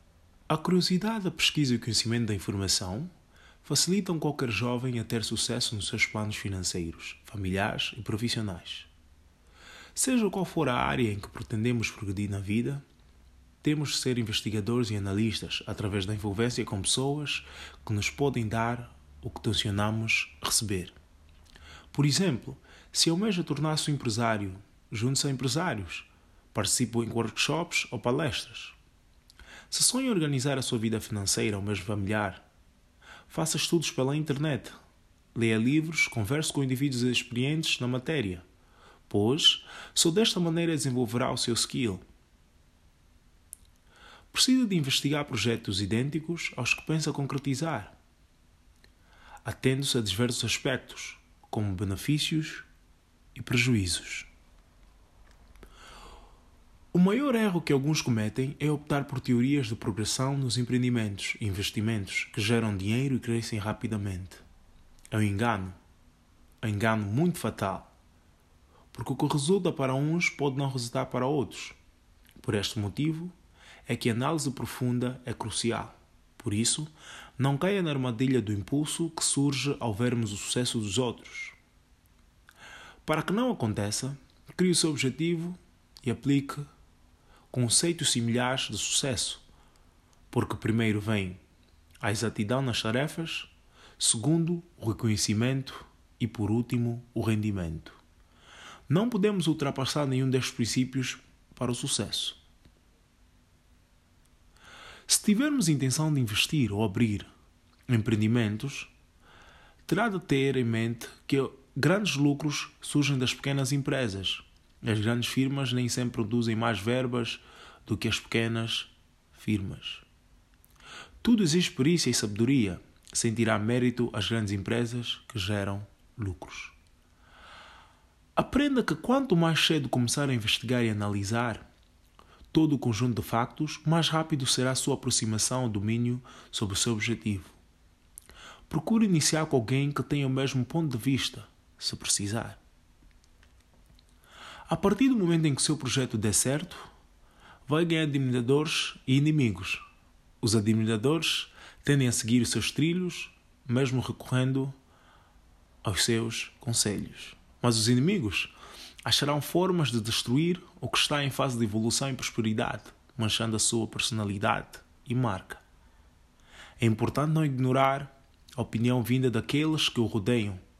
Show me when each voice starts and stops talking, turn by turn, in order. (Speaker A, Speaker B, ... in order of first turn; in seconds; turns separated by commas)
Speaker A: 0.5-3.1, Speaker A: 3.6-8.9, Speaker A: 9.9-12.8, Speaker A: 13.6-20.9, Speaker A: 21.9-28.8, Speaker A: 29.7-32.5, Speaker A: 33.3-34.8, Speaker A: 35.3-38.5, Speaker A: 39.1-42.0, Speaker A: 44.3-48.0, Speaker A: 49.4-52.7, Speaker A: 53.4-54.3, Speaker A: 56.9-64.4, Speaker A: 65.1-65.8, Speaker A: 66.6-67.9, Speaker A: 68.9-71.8, Speaker A: 72.4-73.3, Speaker A: 73.9-81.6, Speaker A: 83.0-86.7, Speaker A: 87.5-89.5, Speaker A: 90.3-91.4, Speaker A: 92.0-98.0, Speaker A: 98.9-102.4, Speaker A: 105.1-107.3, Speaker A: 107.9-108.9, Speaker A: 109.9-120.0, Speaker A: 121.2-126.8, Speaker A: 128.4-131.7, Speaker A: 132.5-137.6, Speaker A: 138.7-142.6, Speaker A: 144.7-146.9, Speaker A: 147.7-149.8, Speaker A: 150.4-154.8, Speaker A: 155.8-158.5, Speaker A: 159.1-165.6, Speaker A: 166.8-170.6